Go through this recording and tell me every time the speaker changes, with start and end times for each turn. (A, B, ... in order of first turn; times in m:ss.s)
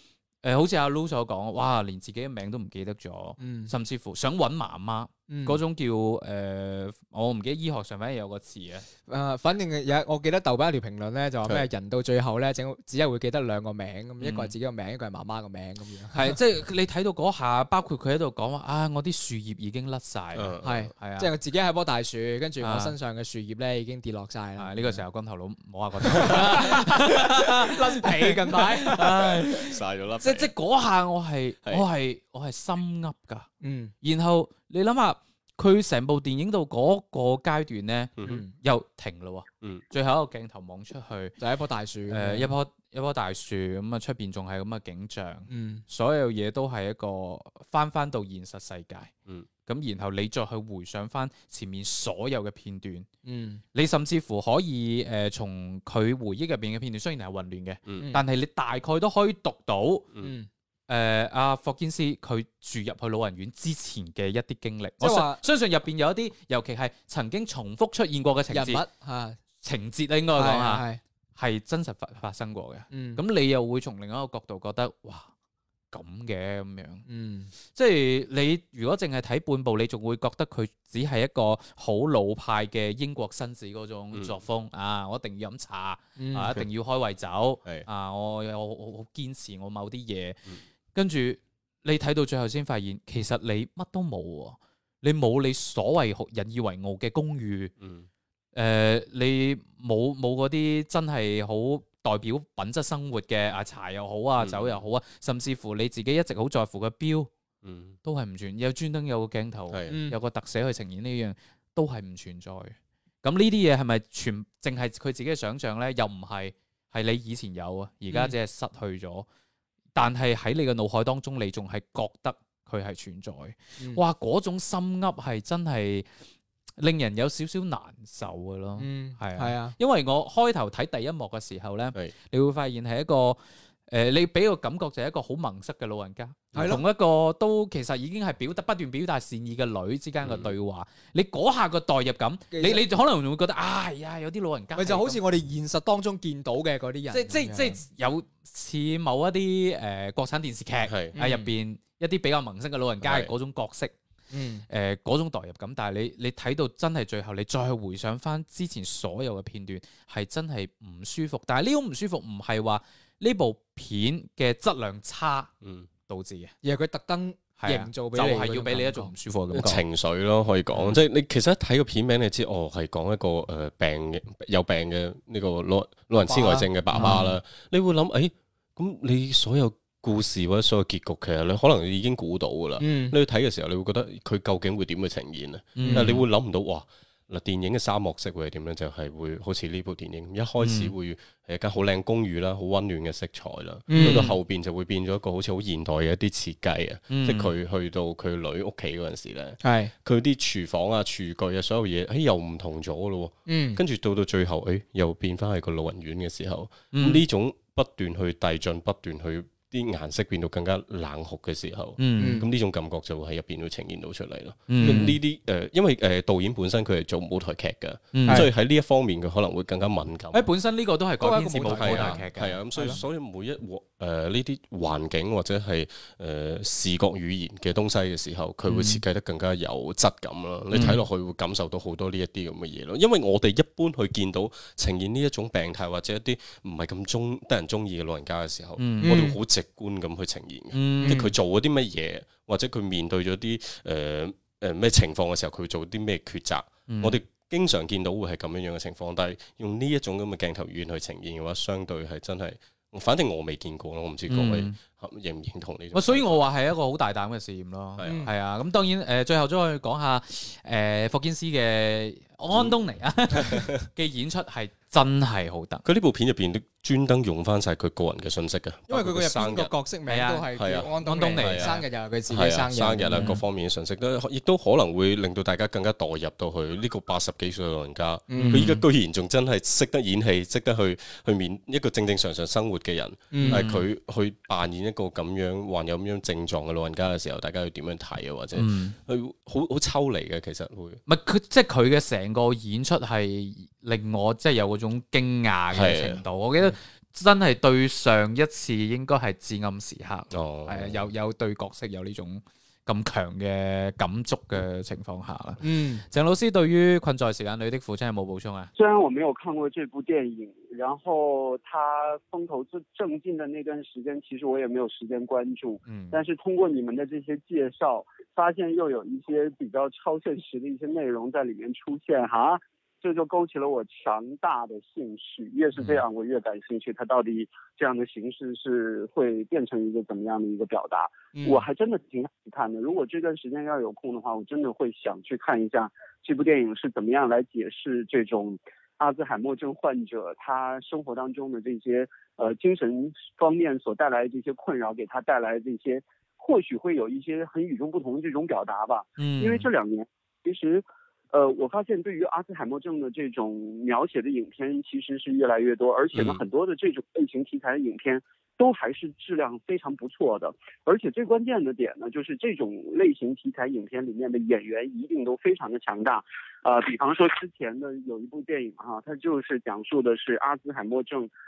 0:00.4-0:08.8 A
0:03.4-0:03.7 B
0:05.3-0:05.6 B
0:09.1-0:16.4 B
0:14.2-0:14.5 A
0:16.1-0:21.3 A
0:20.3-0:20.9 C
0:20.6-0:25.0 B
0:22.6-0:22.9 A
0:24.6-0:33.5 A
0:26.0-0:29.3 B
0:29.5-0:30.5 C
0:33.6-0:33.9 B
0:34.0-0:41.3 A
0:38.2-0:38.4 C
0:38.2-0:38.5 B
0:41.4-0:42.5 B
0:42.1-0:49.1 A
0:45.5-0:45.8 B
0:49.6-0:53.1 A
0:53.2-0:53.6 B
0:53.7-1:00.0 A
0:58.0-0:58.2 B
1:00.2-1:00.5 B
1:00.9-1:08.8 A
1:05.0-1:05.4 B
1:08.5-1:09.4 B
1:09.6-1:10.8 A
1:10.3-1:11.0 B
1:11.4-1:15.3 A
1:12.9-1:13.2 B
1:15.9-1:17.0 A
1:17.0-1:17.5 B
1:17.7-1:30.4 A
1:26.2-1:26.6 B
1:30.9-1:37.7 A
1:37.8-1:38.1 C
1:38.5-1:47.3 A
1:44.4-1:44.8 C
1:47.6-1:48.0 C
1:48.0-1:59.2 A
1:49.7-1:50.0 C
1:49.9-1:50.2 B
1:58.1-1:58.4 B
1:59.9-2:06.1 A
2:06.8-2:25.2 A
2:08.8-2:09.8 B
2:16.5-2:16.8 B
2:20.2-2:20.5 C
2:22.5-2:22.8 B
2:24.8-2:27.8 B
2:27.1-2:33.9 A
2:30.9-2:31.2 C
2:31.1-2:31.5 B
2:33.0-2:33.3 C
2:34.3-2:34.6 B
2:34.7-2:45.5 A
2:45.6-2:45.9 C
2:46.1-2:46.5 A
2:46.6-2:49.1 B
2:47.6-2:49.8 A
2:49.5-3:40.5 C
2:50.7-2:51.0 A
2:56.3-2:57.2 B
2:56.9-2:57.4 A
3:02.8-3:03.1 B
3:05.8-3:06.2 A
3:05.8-3:06.1 B
3:10.6-3:10.9 A
3:13.9-3:14.3 B
3:14.0-3:14.4 A
3:17.1-3:17.5 A
3:19.6-3:19.9 B
3:23.5-3:23.8 B
3:26.9-3:27.2 A
3:32.0-3:32.4 A
3:32.2-3:32.5 B
3:34.7-3:35.2 A
3:34.8-3:35.1 B
3:38.1-3:38.5 A
3:40.3-3:42.6 A
3:41.2-3:43.0 B
3:41.7-4:16.4 C
3:48.7-3:49.0 A
3:50.7-3:51.0 A
3:58.8-3:59.2 A
3:59.0-3:59.4 B
4:00.7-4:01.2 A
4:01.0-4:01.3 B
4:06.9-4:07.2 A
4:14.3-4:14.8 A
4:15.9-4:25.8 A
4:18.0-4:18.2 C
4:18.0-4:18.3 B
4:23.3-4:23.7 C
4:25.8-4:29.7 C
4:28.9-4:33.4 B
4:30.1-4:31.8 A
4:30.6-4:51.0 C
4:33.1-4:33.4 A
4:38.3-4:38.8 B
4:38.4-4:38.8 A
4:43.3-4:43.6 B
4:43.4-4:43.8 A
4:48.6-4:49.0 A
4:51.0-5:08.7 A
4:55.7-4:56.2 C
5:00.3-5:01.1 C
5:05.6-5:06.0 B
5:08.8-6:11.3 D
5:15.8-5:16.2 A
5:31.3-5:31.6 B
5:49.2-5:49.7 A
5:56.1-5:56.4 C